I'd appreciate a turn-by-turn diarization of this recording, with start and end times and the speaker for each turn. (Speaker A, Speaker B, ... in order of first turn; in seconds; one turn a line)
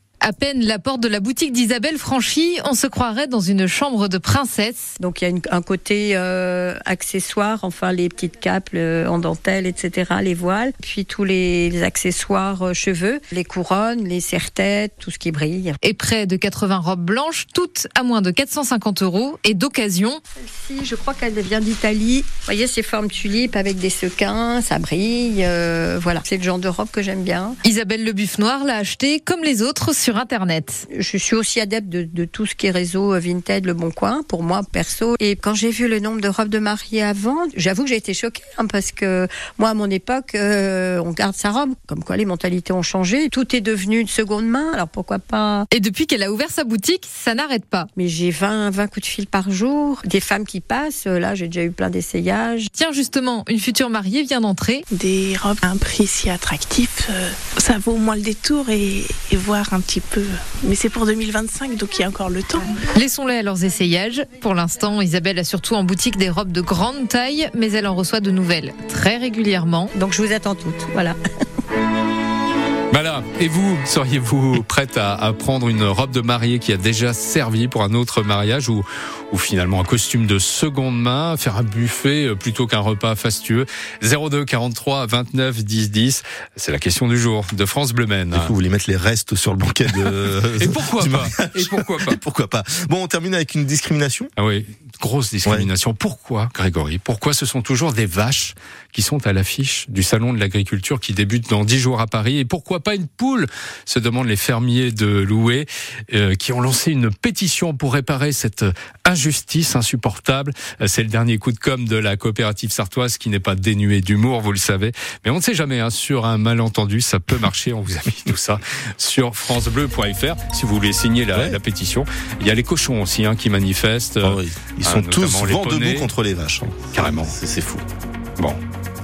Speaker A: 0.2-4.9
Speaker B: 5.0-15.8
Speaker A: 15.8-20.2
Speaker B: 20.4-27.6
Speaker A: 27.6-30.8
Speaker B: 30.9-45.7
Speaker A: 45.7-47.9
Speaker B: 48.0-52.7
Speaker A: 52.7-54.8
Speaker C: 58.1-58.9
Speaker C: 59.5-60.0
Speaker C: 60.8-62.4
Speaker A: 63.0-69.9
Speaker B: 70.0-71.2
Speaker D: 72.9-88.5
Speaker E: 88.3-94.3
Speaker D: 90.1-92.2
Speaker D: 94.4-126.1
Speaker E: 124.2-127.8
Speaker D: 126.9-127.4